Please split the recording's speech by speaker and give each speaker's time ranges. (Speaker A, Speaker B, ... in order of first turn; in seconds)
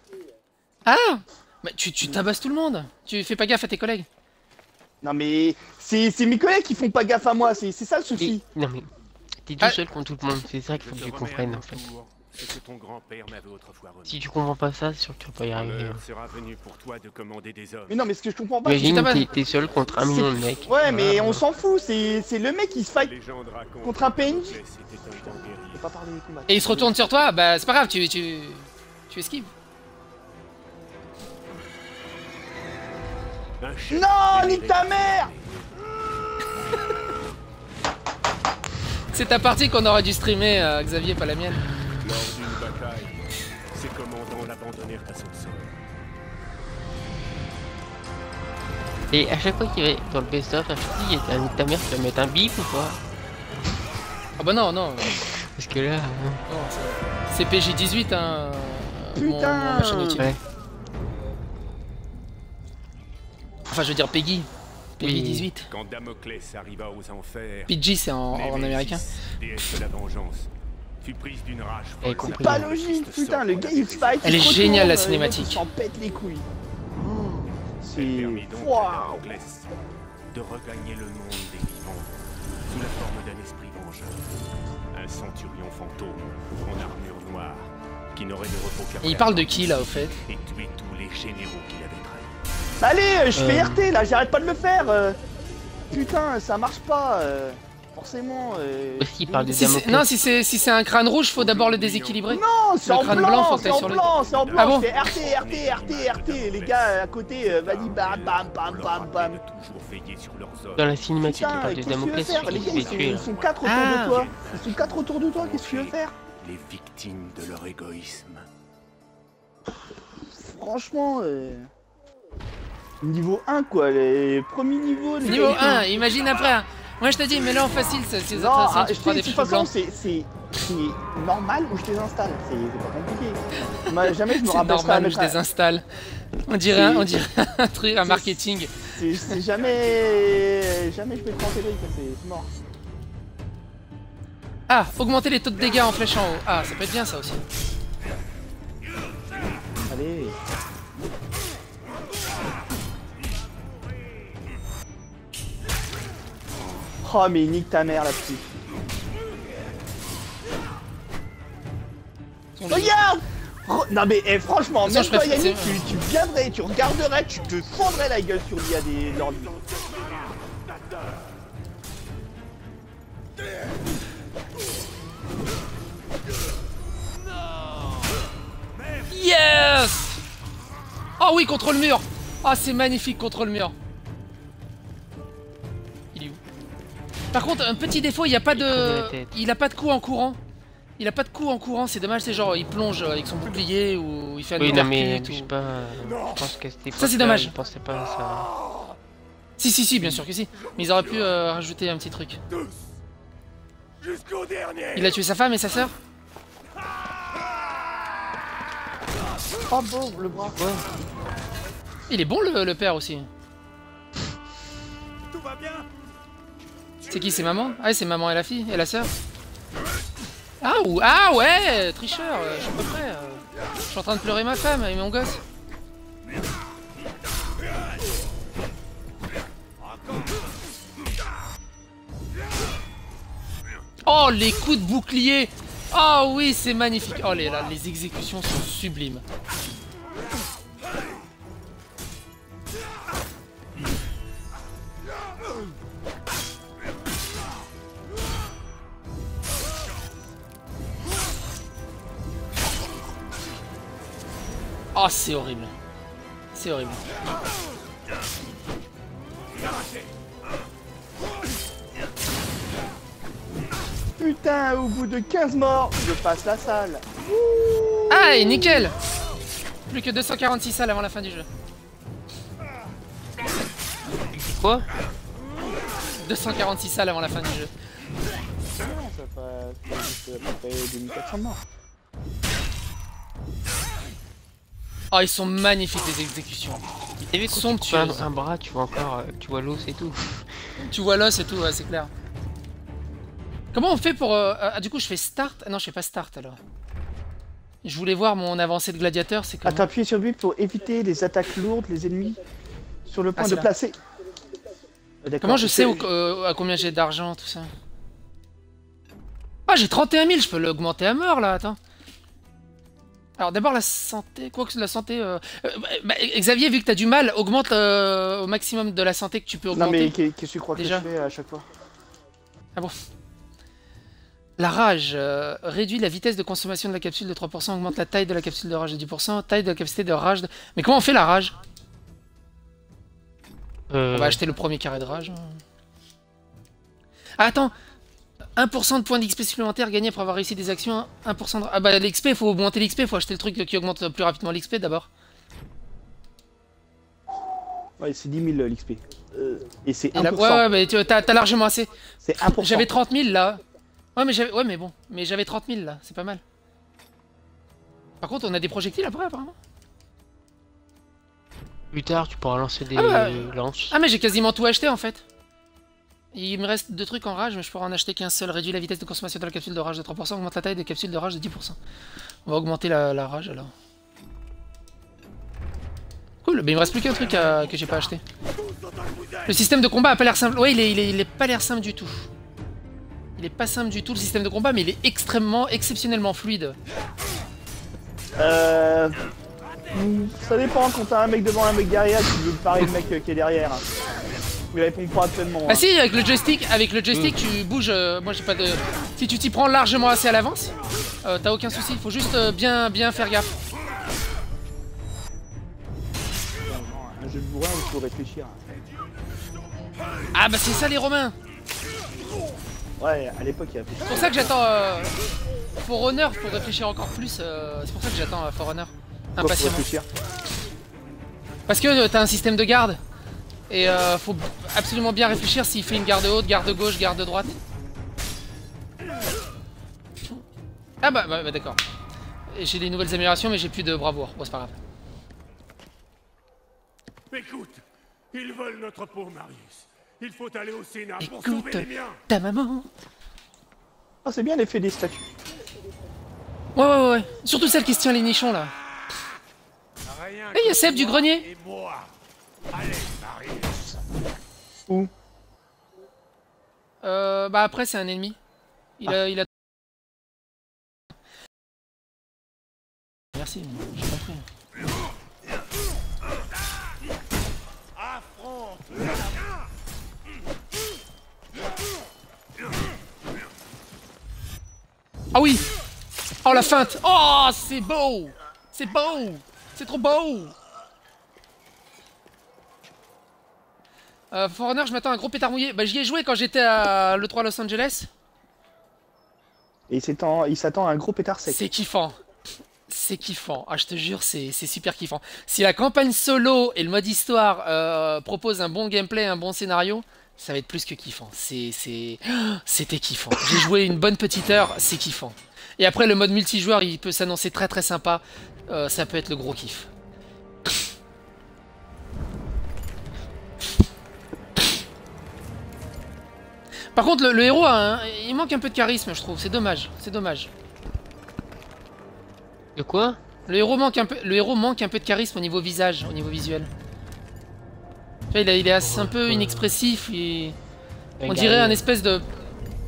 Speaker A: 0.9-4.1, 18.8-19.3, 26.5-29.5, 39.1-41.6, 54.4-55.3, 56.5-60.3, 63.7-65.7, 67.7-69.0, 74.2-75.6, 89.0-90.1, 99.5-104.9, 113.6-114.3, 125.2-129.7, 133.9-135.8, 136.5-139.3, 144.7-147.4, 162.6-162.9, 164.8-165.9, 179.1-180.2, 181.2-183.7, 186.1-186.4, 187.3-190.4, 191.0-195.5, 197.0-197.6, 199.6-202.4, 204.9-205.9, 212.1-213.3, 217.1-219.1, 220.6-225.4, 234.1-239.2, 254.9-255.7, 256.5-257.0, 268.1-268.9, 269.9-271.5, 276.2-277.7, 285.1-286.8, 287.5-288.3, 290.8-292.1, 293.7-296.6, 297.8-299.9, 303.4-303.7, 305.4-307.7, 309.7-311.8, 313.4-320.1, 320.8-321.1, 324.6-331.6, 334.1-335.6, 337.4-337.7, 338.6-345.1, 350.1-351.9, 352.4-353.6, 354.2-356.4, 358.2-359.6, 362.9-365.2, 366.3-371.8, 372.4-373.7, 376.4-378.2, 379.5-382.3, 383.4-386.8, 395.7-403.6, 410.3-411.4, 414.1-415.1, 415.8-419.9, 421.7-423.0, 423.7-427.6, 431.0-431.8, 432.5-434.8, 441.2-442.9, 446.8-448.7, 450.5-451.5, 457.0-458.4, 459.0-459.5, 463.3-464.4, 475.3-475.7, 476.4-480.6, 484.3-488.1, 491.5-492.2, 492.9-509.9, 517.0-520.5, 523.5-526.7, 528.3-530.6, 531.3-532.2
Speaker B: 5.0-8.4, 17.9-19.1, 20.7-23.1, 23.8-24.6, 25.6-27.0, 33.9-35.3, 59.2-60.3, 72.2-76.5, 77.8-79.3, 92.8-95.2, 95.9-99.8, 102.3-109.4, 111.2-116.1, 120.2-121.7, 123.0-125.9, 128.3-135.4, 136.7-137.2, 138.0-138.4, 138.9-142.5, 149.9-150.4, 157.0-158.5, 162.7-169.5, 209.7-210.6, 264.2-268.9, 278.7-281.6, 299.6-302.4, 303.1-304.0, 305.2-306.1, 319.7-321.7, 348.0-350.7, 352.2-352.9, 388.4-389.2, 389.9-393.9, 394.7-395.9, 406.6-408.6, 413.0-414.6, 419.4-420.1, 444.2-445.3, 489.9-491.6
Speaker C: 8.2-8.9, 9.4-11.8, 14.1-16.0, 18.6-21.4, 49.1-53.0, 55.5-56.4, 65.0-65.5, 72.0-72.7, 93.3-93.9, 99.0-100.1, 110.8-113.3, 188.5-189.3, 194.6-198.5, 210.6-210.8, 274.3-274.9, 287.3-290.6, 333.9-334.4, 361.9-364.0, 522.8-523.2, 528.8-529.8, 531.2-531.8
Speaker D: 10.8-14.2, 15.5-18.0, 23.0-25.9, 33.6-35.6, 42.0-45.8, 65.7-67.8, 68.3-70.5, 71.0-74.9, 77.3-79.8, 80.3-84.3, 84.9-92.3, 101.3-102.4, 102.9-111.0, 112.1-118.5, 126.0-126.5, 169.1-171.2, 177.4-178.1, 178.7-179.2, 196.0-196.5, 198.1-198.9, 200.6-201.4, 202.5-202.8, 204.0-205.2, 215.3-215.9, 217.0-217.8, 378.6-379.5, 437.3-442.2, 450.1-452.1, 452.7-453.9, 468.0-469.1